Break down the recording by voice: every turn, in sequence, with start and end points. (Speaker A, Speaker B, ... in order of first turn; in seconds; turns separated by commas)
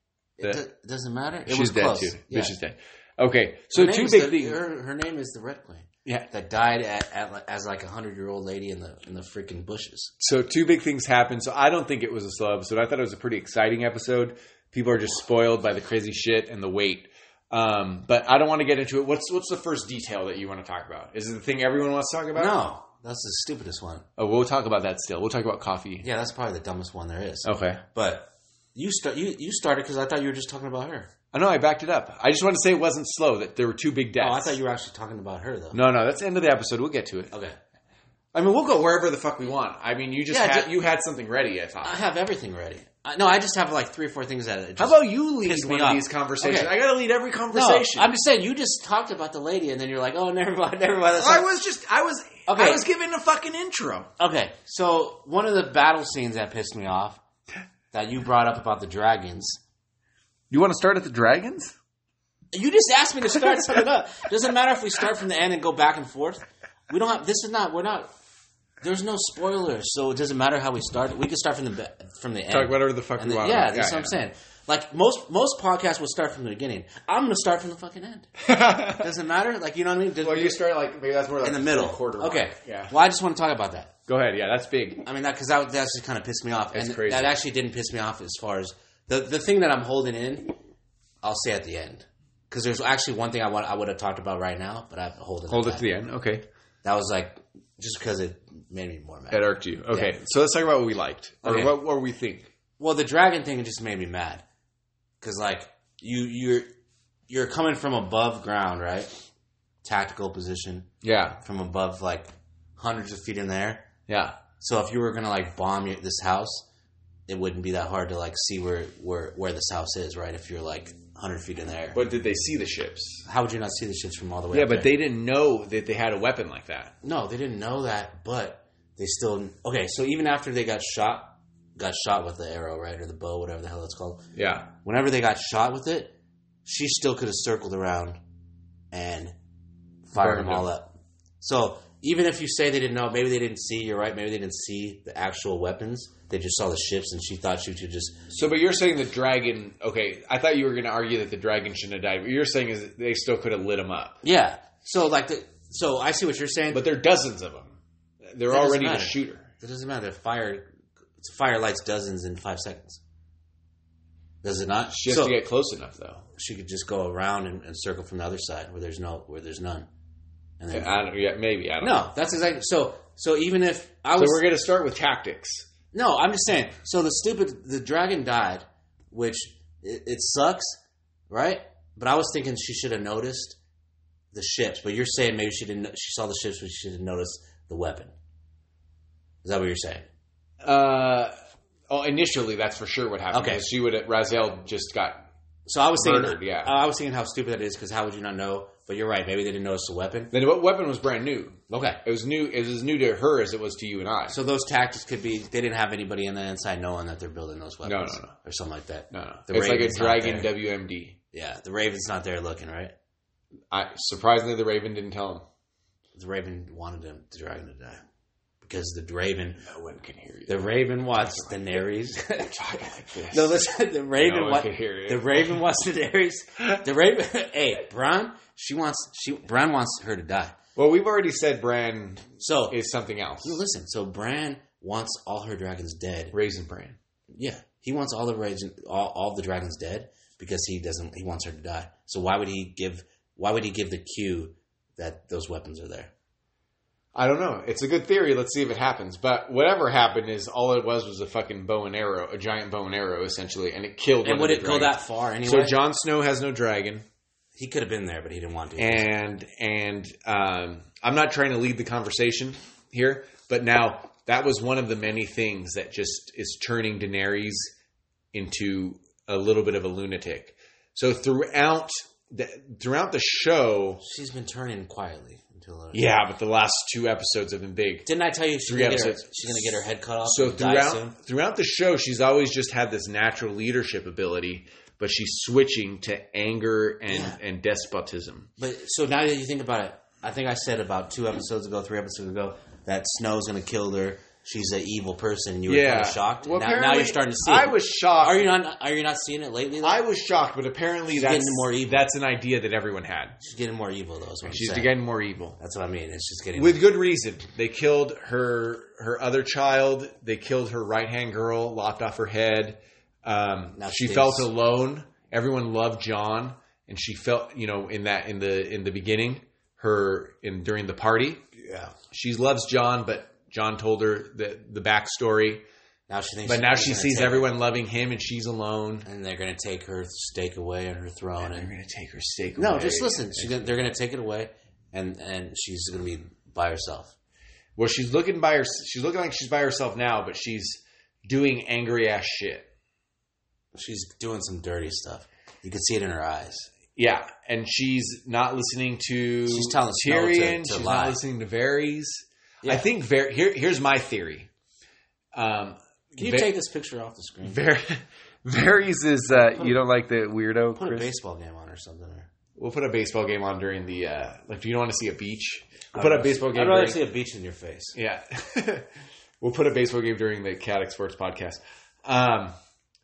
Speaker A: 0.4-2.5, Speaker B: 1.5-4.6, Speaker A: 3.7-10.1, Speaker B: 10.2-22.6, Speaker A: 22.3-24.1, Speaker B: 24.2-26.1, Speaker A: 26.0-31.1, Speaker B: 27.4-27.8, Speaker B: 31.3-34.5, Speaker A: 34.2-35.8, Speaker B: 35.7-37.3, Speaker A: 37.3-37.6, Speaker B: 38.3-42.0, Speaker A: 40.3-40.7, Speaker A: 41.8-46.7, Speaker B: 44.8-48.1, Speaker A: 47.5-51.5, Speaker B: 51.1-54.1, Speaker A: 52.5-52.8, Speaker A: 54.2-57.2, Speaker A: 57.9-59.6, Speaker B: 60.5-61.7, Speaker A: 62.5-68.1, Speaker A: 68.8-78.3, Speaker B: 72.5-74.2, Speaker B: 78.4-79.1, Speaker A: 78.9-80.6, Speaker B: 80.2-82.9, Speaker A: 81.4-83.9, Speaker B: 84.1-85.0, Speaker A: 85.0-90.6, Speaker B: 86.7-87.3, Speaker A: 91.2-95.9, Speaker B: 95.5-96.4, Speaker A: 96.8-100.1, Speaker B: 99.3-102.5, Speaker A: 101.4-101.7, Speaker A: 102.8-104.4, Speaker A: 105.2-106.7, Speaker A: 107.3-109.2, Speaker A: 109.8-113.9, Speaker B: 111.0-111.4, Speaker B: 114.1-114.4, Speaker A: 114.5-116.7, Speaker A: 117.3-122.0, Speaker B: 121.9-123.2, Speaker A: 123.2-124.9, Speaker B: 124.5-126.9, Speaker A: 127.0-138.2, Speaker B: 134.3-134.7, Speaker A: 138.9-139.4, Speaker A: 140.1-148.3, Speaker B: 140.2-140.7, Speaker B: 148.3-154.2, Speaker A: 154.2-156.8, Speaker B: 156.7-157.8, Speaker B: 158.3-159.4, Speaker A: 158.5-163.0, Speaker A: 164.4-165.4, Speaker B: 164.9-166.2, Speaker A: 166.3-169.9, Speaker A: 170.6-170.9, Speaker B: 170.7-172.1, Speaker A: 171.8-174.4, Speaker B: 174.1-175.7, Speaker A: 175.9-183.6, Speaker A: 184.3-188.1, Speaker A: 189.4-190.1, Speaker B: 190.6-191.3, Speaker B: 191.9-195.2, Speaker A: 193.3-193.7, Speaker A: 195.7-200.3, Speaker B: 196.0-196.7, Speaker B: 200.3-204.3, Speaker A: 201.7-202.0, Speaker A: 204.3-210.5, Speaker B: 207.8-208.3, Speaker B: 209.1-211.2, Speaker A: 211.3-212.9, Speaker B: 213.7-215.4, Speaker A: 216.1-218.0, Speaker A: 218.6-219.6, Speaker B: 219.6-221.7, Speaker A: 220.5-230.6, Speaker B: 222.4-223.6, Speaker B: 224.2-225.6, Speaker B: 230.8-233.6, Speaker A: 232.4-232.8, Speaker A: 233.4-236.3, Speaker B: 236.3-237.0, Speaker A: 237.3-246.1, Speaker B: 247.1-257.0, Speaker A: 254.2-255.8, Speaker A: 257.5-259.1, Speaker B: 258.8-267.7, Speaker B: 268.3-274.0, Speaker A: 274.0-276.0, Speaker B: 275.9-278.1, Speaker A: 278.0-281.1, Speaker B: 278.6-279.7, Speaker B: 280.2-288.5, Speaker A: 287.1-287.4, Speaker A: 288.6-300.0, Speaker B: 295.7-298.5, Speaker B: 299.8-303.4, Speaker A: 301.1-302.1, Speaker A: 303.4-304.9, Speaker B: 304.4-305.6, Speaker A: 305.6-306.8, Speaker B: 306.6-321.5, Speaker A: 313.8-314.5, Speaker A: 321.6-321.9, Speaker B: 322.1-325.6, Speaker A: 326.1-327.5, Speaker B: 326.4-329.1, Speaker A: 329.1-331.7, Speaker B: 331.4-333.6, Speaker A: 332.6-337.1, Speaker B: 337.8-342.7, Speaker A: 343.7-346.7, Speaker B: 346.9-354.5, Speaker A: 349.5-351.2, Speaker A: 352.6-352.9, Speaker B: 355.3-356.5, Speaker A: 356.1-357.6, Speaker B: 357.4-361.1, Speaker A: 359.3-359.8, Speaker A: 360.7-362.3, Speaker B: 362.6-367.0, Speaker A: 365.9-367.9, Speaker B: 367.9-368.9, Speaker B: 369.4-372.5